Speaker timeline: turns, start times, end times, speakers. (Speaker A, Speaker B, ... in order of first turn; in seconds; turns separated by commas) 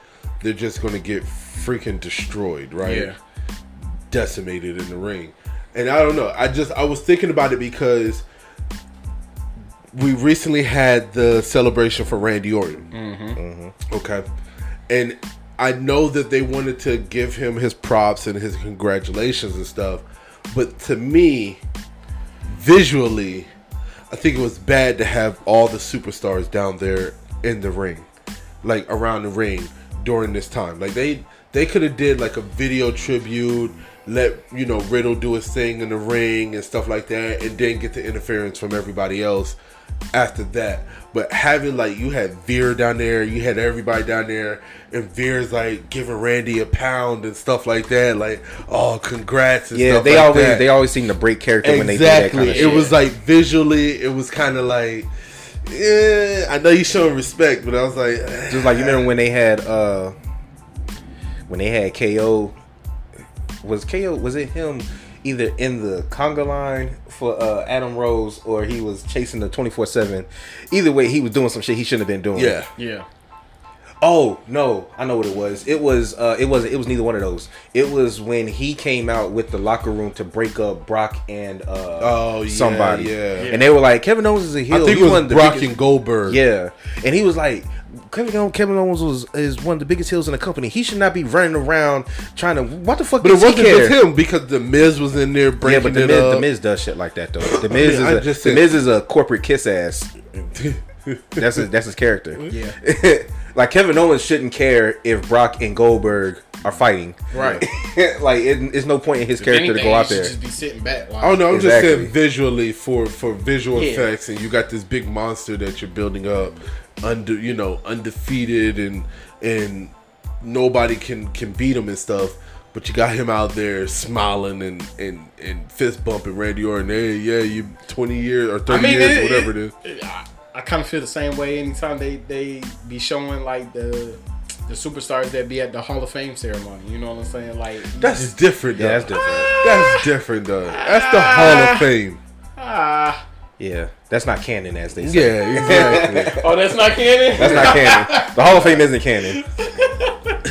Speaker A: 0.4-3.1, Speaker B: 2.8-3.2, Speaker A: 4.1-8.2, Speaker A: 9.9-12.9, Speaker B: 12.9-13.4, Speaker C: 13.4-13.8, Speaker A: 13.9-14.2, Speaker A: 14.9-21.6, Speaker A: 22.5-23.5, Speaker A: 24.1-28.1, Speaker A: 28.6-39.6, Speaker A: 40.1-50.7, Speaker C: 49.7-52.9, Speaker A: 51.6-59.1, Speaker B: 52.4-53.0, Speaker C: 58.5-60.1, Speaker C: 61.5-62.5, Speaker C: 63.6-72.6, Speaker A: 72.3-72.7, Speaker B: 72.8-73.1, Speaker C: 74.0-85.7, Speaker A: 82.0-83.5, Speaker B: 83.4-83.7, Speaker A: 84.7-86.4, Speaker C: 86.3-94.0, Speaker A: 93.2-96.5, Speaker C: 95.6-100.1, Speaker A: 97.4-98.7, Speaker A: 100.6-101.5, Speaker C: 101.4-110.3, Speaker B: 102.5-102.8, Speaker B: 107.3-107.7, Speaker A: 107.4-107.6, Speaker B: 109.4-111.5, Speaker A: 111.2-129.7, Speaker C: 111.5-112.1, Speaker B: 113.7-114.1, Speaker B: 128.7-138.3, Speaker A: 138.0-142.2, Speaker C: 138.8-139.5, Speaker B: 139.2-140.1, Speaker B: 140.7-141.8, Speaker B: 142.6-143.2, Speaker C: 143.6-146.5, Speaker A: 145.0-146.4, Speaker B: 146.3-150.4, Speaker C: 147.3-149.4, Speaker A: 147.4-147.8